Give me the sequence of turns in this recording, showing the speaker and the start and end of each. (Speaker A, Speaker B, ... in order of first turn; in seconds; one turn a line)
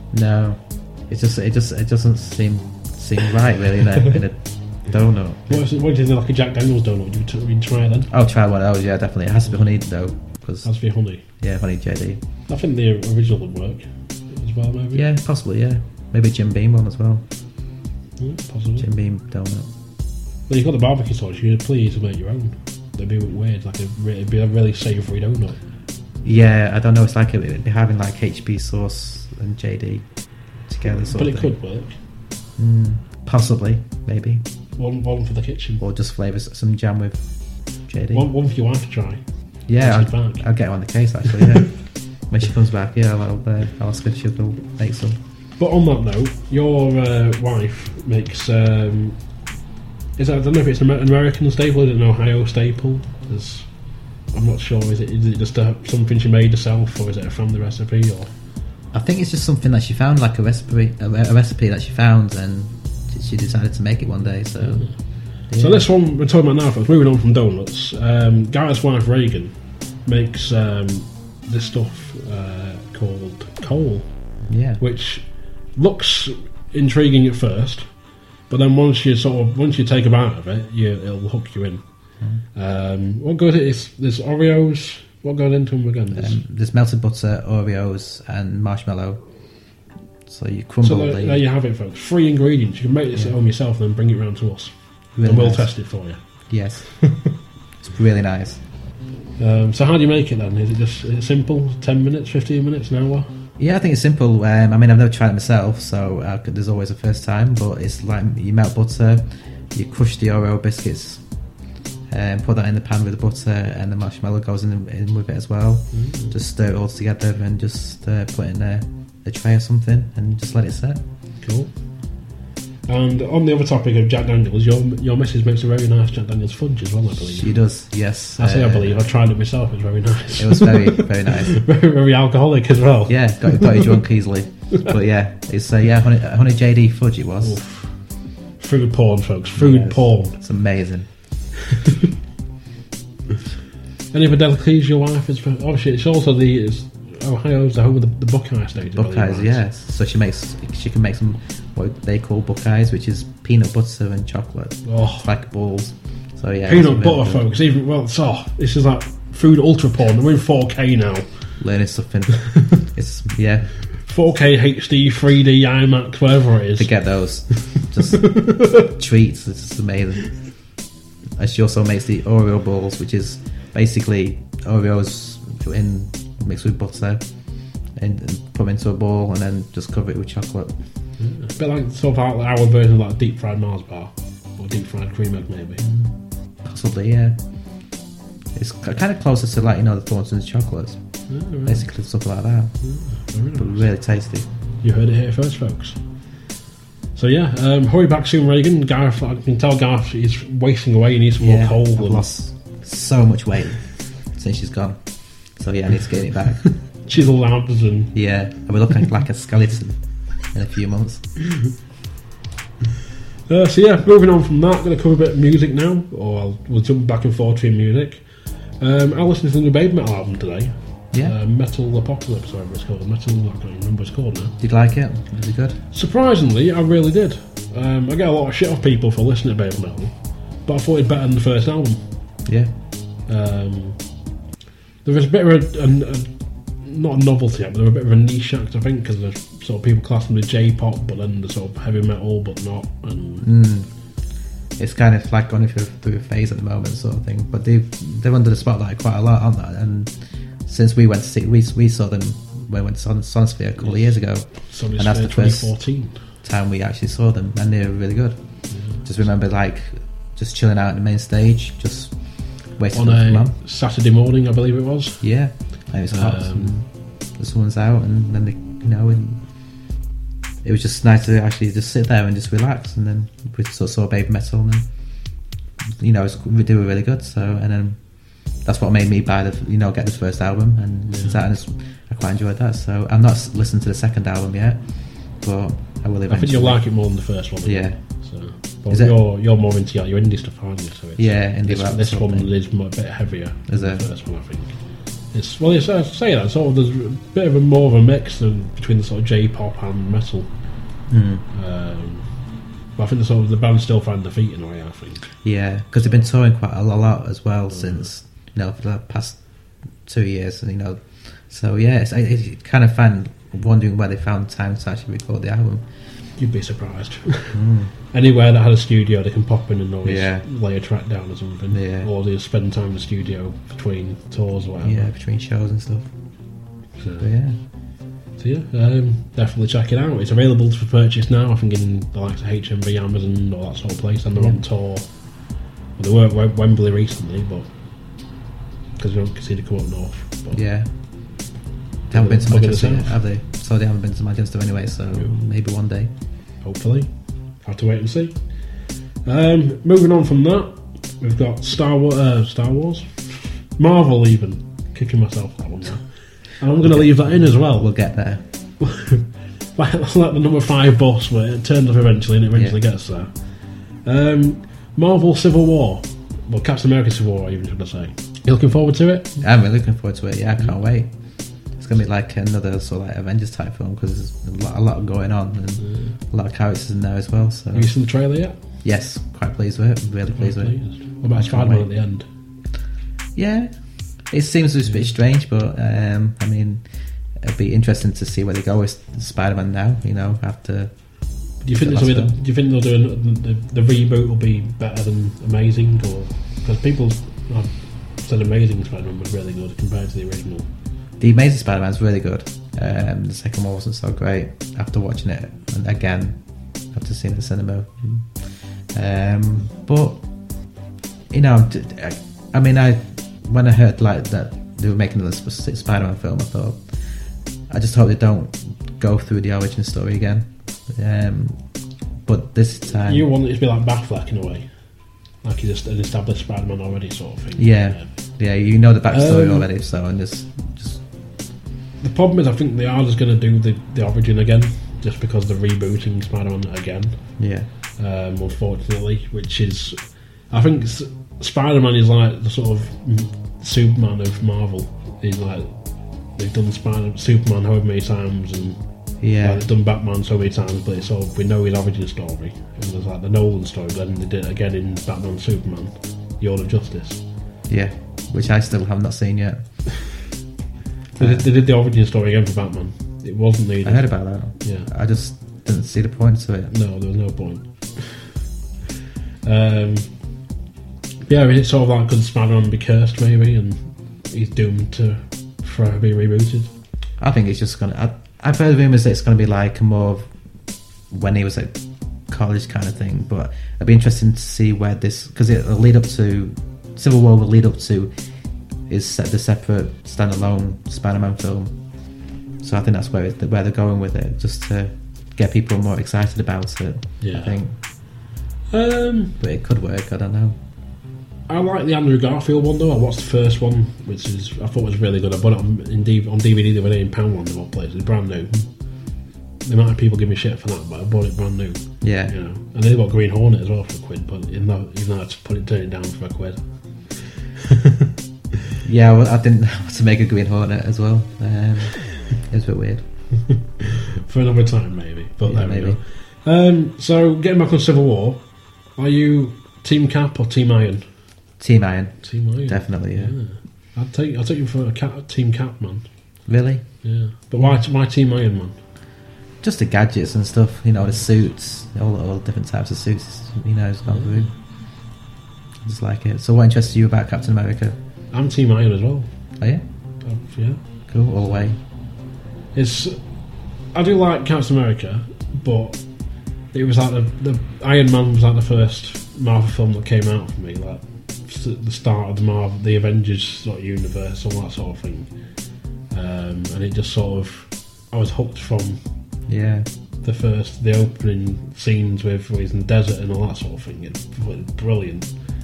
Speaker A: 0.1-5.6
Speaker B: 5.5-8.1
Speaker A: 8.1-10.7
Speaker B: 10.6-11.2
Speaker A: 11.2-12.2
Speaker B: 12.5-15.1
Speaker A: 14.9-17.2
Speaker B: 18.2-18.9
Speaker A: 18.8-19.7
Speaker B: 20.5-25.6
Speaker A: 26.2-31.5
Speaker B: 30.8-31.9
Speaker A: 32.6-34.4
Speaker B: 34.8-35.8
Speaker A: 35.8-38.3
Speaker B: 38.1-39.2
Speaker A: 39.7-45.2
Speaker B: 39.8-40.5
Speaker B: 45.6-49.2
Speaker B: 50.2-53.7
Speaker B: 54.2-58.3
Speaker A: 58.9-65.8
Speaker B: 64.6-77.9
Speaker A: 74.5-74.8
Speaker B: 78.5-81.8
Speaker B: 82.5-86.4
Speaker A: 86.1-89.2
Speaker A: 90.2-91.4
Speaker B: 90.8-96.2
Speaker A: 95.2-95.8
Speaker A: 96.5-97.3
Speaker A: 97.8-98.6
Speaker B: 99.4-103.3
Speaker A: 103.6-111.2
Speaker A: 112.1-121.0
Speaker B: 115.9-116.3
Speaker B: 121.4-121.8
Speaker B: 122.9-127.6
Speaker A: 127.2-129.0
Speaker B: 128.4-133.9
Speaker A: 130.4-131.6
Speaker A: 133.1-137.6
Speaker B: 137.4-140.4
Speaker A: 139.6-141.1
Speaker B: 144.1-149.6
Speaker A: 148.9-157.4
Speaker B: 154.8-155.3
Speaker B: 156.6-161.5
Speaker A: 161.6-163.8
Speaker B: 164.0-166.9
Speaker A: 166.8-170.6
Speaker B: 168.2-168.8
Speaker A: 171.4-177.2
Speaker A: 177.9-180.7
Speaker B: 181.2-185.8
Speaker A: 185.8-187.4
Speaker A: 188.5-191.0
Speaker B: 191.3-191.9
Speaker A: 191.6-192.7
Speaker B: 192.8-193.9
Speaker A: 193.5-194.5
Speaker B: 194.8-196.0
Speaker B: 197.1-202.3
Speaker A: 201.4-207.2
Speaker B: 207.0-208.2
Speaker A: 208.1-211.3
Speaker B: 213.5-224.6
Speaker A: 224.6-225.8
Speaker B: 225.9-232.0
Speaker A: 232.4-232.7
Speaker B: 233.3-234.0
Speaker B: 235.0-243.5
Speaker A: 243.4-243.9
Speaker A: 244.8-255.8
Speaker B: 253.8-256.2
Speaker A: 256.3-263.5
Speaker B: 258.7-259.0
Speaker B: 262.9-265.3
Speaker A: 265.2-269.4
Speaker B: 266.1-266.7
Speaker A: 270.6-274.9
Speaker A: 275.9-288.2
Speaker B: 281.1-281.4
Speaker B: 286.3-294.7
Speaker A: 288.9-289.2
Speaker A: 291.2-292.5
Speaker A: 293.7-294.1
Speaker B: 295.3-300.5
Speaker A: 301.1-301.4
Speaker B: 301.5-302.3
Speaker B: 302.9-305.3
Speaker A: 305.4-315.8
Speaker B: 307.7-308.1
Speaker B: 316.4-317.6
Speaker A: 317.5-317.9
Speaker B: 318.1-325.1
Speaker A: 320.0-320.4
Speaker A: 321.7-322.1
Speaker A: 324.8-326.1
Speaker B: 326.9-327.3
Speaker A: 327.2-327.6
Speaker B: 328.3-335.1
Speaker A: 334.3-334.6
Speaker B: 335.9-337.7
Speaker B: 339.0-340.6
Speaker A: 340.5-340.9
Speaker A: 342.1-346.1
Speaker B: 342.1-343.2
Speaker B: 346.6-357.9
Speaker A: 356.8-358.4
Speaker B: 358.8-369.4
Speaker A: 362.5-362.8
Speaker A: 369.4-377.9
Speaker B: 375.8-376.1
Speaker B: 377.7-378.6
Speaker A: 378.8-381.9
Speaker B: 380.3-382.2
Speaker A: 383.3-386.8
Speaker A: 387.4-392.3
Speaker B: 391.6-400.7
Speaker A: 401.2-410.2
Speaker A: 411.3-416.8
Speaker A: 417.7-423.2
Speaker B: 423.0-428.1
Speaker A: 427.6-431.0
Speaker B: 429.1-429.7
Speaker B: 432.0-437.4
Speaker A: 437.4-437.7
Speaker B: 437.9-457.2
Speaker A: 449.2-449.6
Speaker A: 457.7-459.6
Speaker B: 461.1-464.9
Speaker A: 461.2-461.5
Speaker A: 463.8-466.7
Speaker B: 466.7-468.3
Speaker B: 469.4-470.1
Speaker B: 471.3-476.7
Speaker A: 477.2-480.3
Speaker A: 481.1-481.8
Speaker A: 482.3-488.1
Speaker A: 488.9-491.7
Speaker A: 492.6-497.7
Speaker B: 497.2-499.3
Speaker A: 499.4-500.6
Speaker B: 501.5-508.6
Speaker B: 509.6-517.3
Speaker A: 512.0-512.3
Speaker A: 518.8-523.0
Speaker B: 523.8-531.0
Speaker A: 525.4-526.0
Speaker A: 531.6-533.4
Speaker B: 532.2-536.1
Speaker A: 536.5-536.9
Speaker B: 537.0-538.7
Speaker A: 539.6-544.5
Speaker B: 541.0-541.3
Speaker B: 544.1-544.5
Speaker A: 545.8-548.0
Speaker B: 548.3-549.3
Speaker B: 550.2-551.7
Speaker A: 551.1-551.8
Speaker B: 552.7-553.2
Speaker B: 553.9-565.3
Speaker B: 566.1-569.0
Speaker A: 569.5-569.9
Speaker B: 570.2-575.3